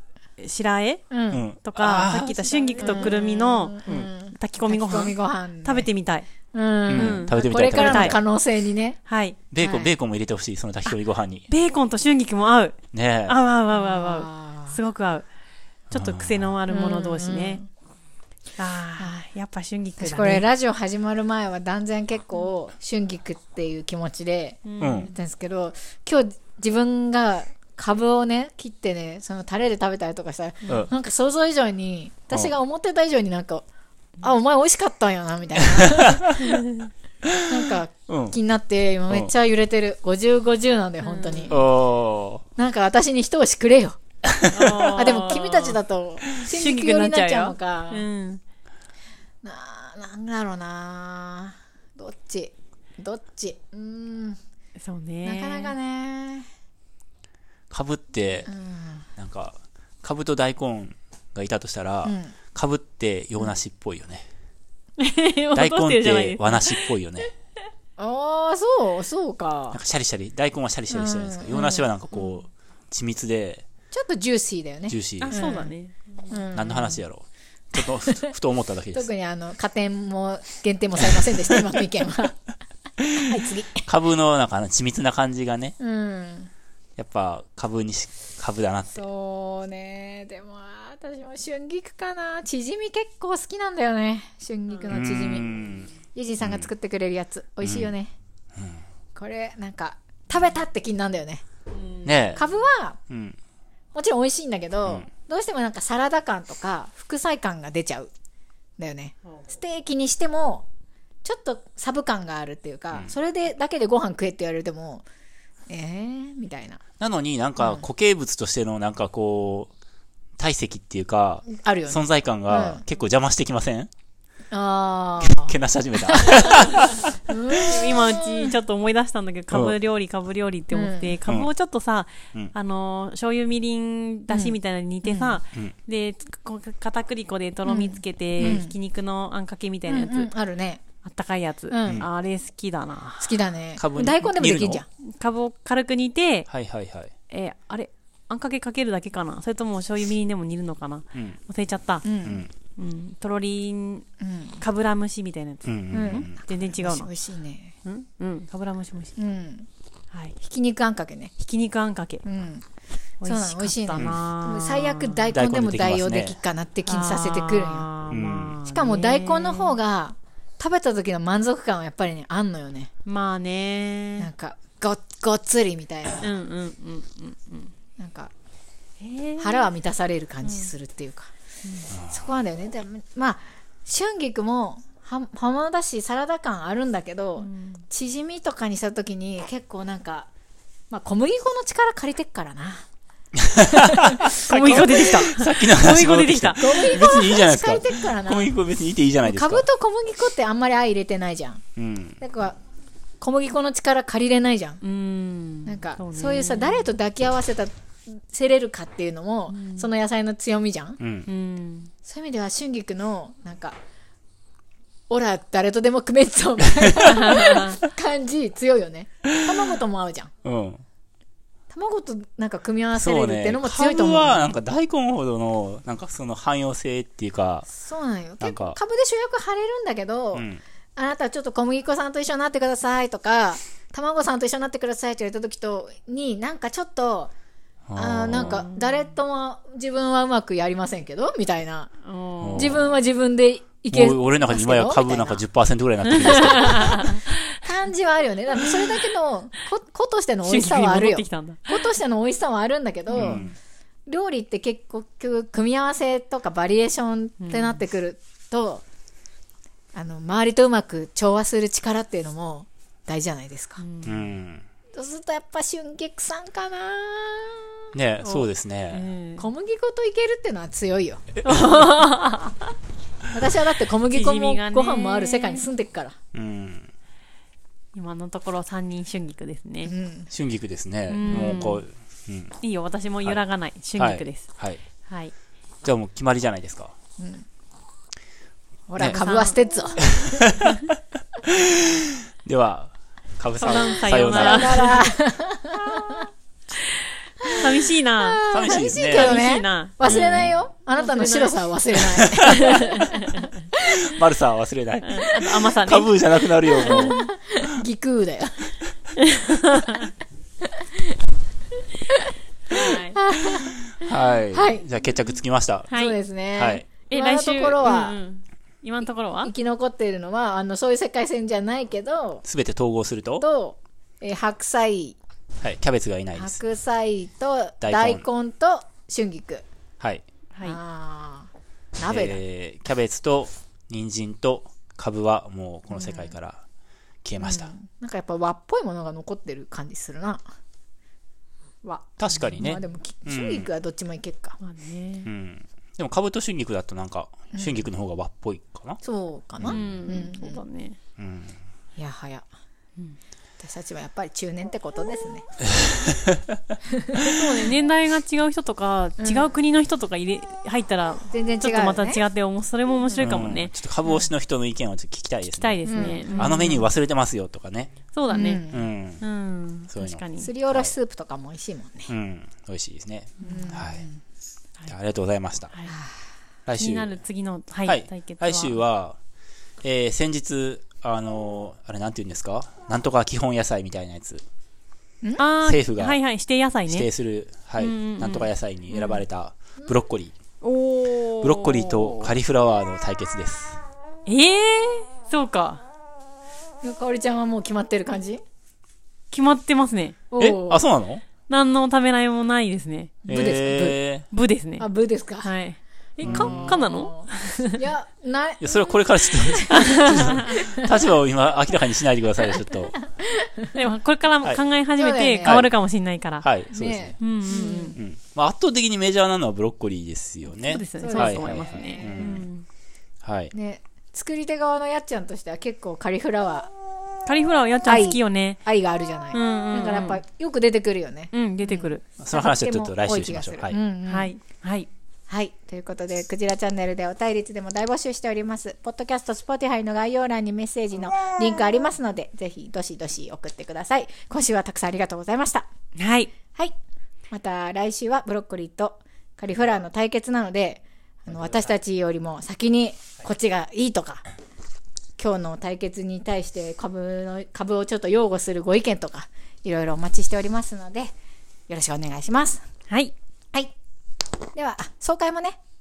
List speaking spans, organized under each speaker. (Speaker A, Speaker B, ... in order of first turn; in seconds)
Speaker A: 0.4-1.0, 1.6-6.3, 6.9-8.2, 9.1-9.4, 11.5-15.2, 15.9-17.6, 18.6-20.4, 24.7-25.1, 36.6-36.9, 41.0-41.6, 44.5-45.8, 46.4-48.4, 54.8-55.7, 65.0-66.8, 75.2-76.0, 101.8-102.4, 127.6-140.3, 141.0-143.4, 145.0-146.5, 147.3-152.0, 152.8-154.1, 154.6-157.1, 157.8-159.1, 161.4-162.2, 163.2-165.3, 166.9-169.8, 173.1-174.3, 176.2-177.7, 179.0-179.7, 180.4-180.7, 181.6-181.9, 187.4-187.8, 194.3-197.2, 204.8-206.9, 209.5-209.9, 211.3-211.9, 217.1-217.6, 242.0-242.8, 246.1-247.4, 250.4-251.9, 253.1-253.5, 257.4-257.8, 263.8-264.3, 268.2-269.5, 271.4-272.7, 274.1-275.6, 277.9-279.9, 281.1-281.8, 282.6-284.5, 285.0-285.3, 289.0-289.6, 293.6-295.1, 296.8-301.5, 302.4-303.5, 305.0-307.3, 309.2-310.1, 312.7-313.2, 315.9-316.2, 317.1-319.5, 344.6-345.3, 349.6-351.0, 357.2-363.7, 365.6-366.9, 368.1-368.6, 369.2-370.5, 373.4-373.8, 376.8-378.8, 385.4-387.1, 387.8-389.2, 390.6-392.3, 394.3-395.8, 399.3-400.2, 401.5-403.1, 404.3-404.9, 405.4-407.8, 409.7-410.5, 413.7-416.5, 417.2-418.0, 420.6-422.6, 427.2-428.6, 429.3-430.2, 431.3-432.0, 434.1-434.9, 446.0-446.3, 462.9-463.1
Speaker B: 1.1-1.4, 2.8-5.9, 6.5-9.0, 9.6-9.9, 13.7-14.8, 16.7-17.6, 20.0-33.6, 34.2-36.6, 37.4-41.7, 42.5-44.0, 44.9-48.1, 49.4-54.4, 55.2-56.5, 58.5-59.1, 62.0-62.3, 68.0-69.8, 70.9-71.9, 73.9-75.7, 76.3-77.0, 77.8-78.3, 78.9-82.4, 83.1-83.8, 85.8-86.5, 89.0-95.5, 96.1-98.1, 99.1-101.4, 102.3-103.0, 103.9-108.1, 108.8-110.7, 111.2-115.0, 115.7-116.8, 117.6-117.8, 121.5-122.8, 124.5-128.5, 130.7-131.2, 134.3-135.4, 137.7-138.7, 139.9-140.8, 141.7-142.1, 143.2-144.8, 152.0-152.4, 154.2-154.6, 155.9-157.7, 159.2-159.7, 160.4-161.3, 162.2-162.6, 163.2-167.9, 168.7-172.9, 174.2-176.2, 178.0-178.3, 179.4-181.3, 181.9-190.3, 190.9-192.8, 193.7-195.2, 196.6-198.5, 199.2-201.6, 202.2-202.6, 203.2-204.8, 205.7-211.0, 212.1-213.8, 215.1-220.3, 221.7-224.5, 227.7-237.3, 237.9-241.9, 242.5-245.4, 246.2-253.4, 254.1-258.8, 259.9-263.8, 264.9-267.9, 269.4-272.1, 273.3-276.1, 279.8-280.3, 287.2-287.4, 288.9-290.5, 293.7-296.3, 297.4-304.1, 306.8-308.7, 310.6-311.2, 312.1-314.8, 315.9-318.2, 319.4-322.4, 323.4-325.2, 326.3-329.6, 330.6-332.4, 335.9-336.3, 337.4-340.4, 341.8-344.6, 347.5-347.9, 349.0-350.6, 352.0-352.4, 353.6-355.4, 356.9-357.3, 359.2-359.5, 361.3-362.2, 365.9-366.8, 368.3-368.9, 370.4-372.1, 373.4-374.2, 375.9-376.1, 396.8-398.4, 400.3-400.8, 403.2-404.0, 404.8-405.5, 406.2-411.0, 413.0-413.7, 415.0-415.6, 416.7-417.9, 421.0-422.4, 423.5-426.7, 427.9-434.3, 435.3-445.7, 447.3-454.2, 455.2-461.1, 461.7-462.6, 464.5-465.6
Speaker C: 1.3-3.1, 6.9-8.2, 9.5-11.4, 12.9-13.4, 15.9-16.5, 24.8-25.1, 32.3-32.5, 35.6-36.6, 37.2-38.4, 41.5-42.4, 44.3-45.0, 57.7-58.5, 59.2-64.2, 65.5-67.3, 69.7-73.7, 74.9-75.5, 76.5-79.1, 81.0-81.6, 83.0-85.8, 87.0-89.0, 94.9-95.9, 96.4-96.7, 97.6-97.9, 98.5-98.8, 102.0-102.4, 103.1-103.4, 117.0-119.7, 120.4-123.9, 125.2-127.6, 143.8-144.8, 146.5-147.1, 155.6-156.4, 165.3-166.4, 168.1-168.6, 181.9-182.2, 193.3-199.7, 201.8-202.2, 211.0-211.3, 216.8-217.7, 219.2-219.6, 220.4-220.8, 222.9-227.7, 228.4-228.8, 230.3-230.6, 237.9-238.7, 242.4-242.9, 243.9-247.2, 253.1-253.5, 264.0-264.6, 267.9-269.1, 276.3-276.9, 280.3-282.5, 284.0-284.8, 285.8-286.9, 290.1-294.9, 298.5-299.4, 300.0-300.5, 302.1-302.9, 303.8-307.2, 313.6-315.9, 316.6-316.9, 322.5-323.4, 325.6-326.6, 327.8-328.2, 332.1-336.6, 337.2-337.7, 342.2-343.7, 345.2-349.0, 349.6-349.8, 351.2-351.6, 355.7-357.4, 363.2-367.9, 368.7-369.2, 369.9-370.9, 372.1-374.1, 374.9-375.7, 376.6-377.2, 377.8-379.2, 379.8-384.4, 385.6-386.2, 386.9-390.3, 391.4-393.8, 400.4-401.2, 403.3-404.2, 406.2-406.8, 408.6-413.0, 415.4-415.7, 416.4-417.2, 417.9-422.4, 423.2-423.5, 432.2-433.8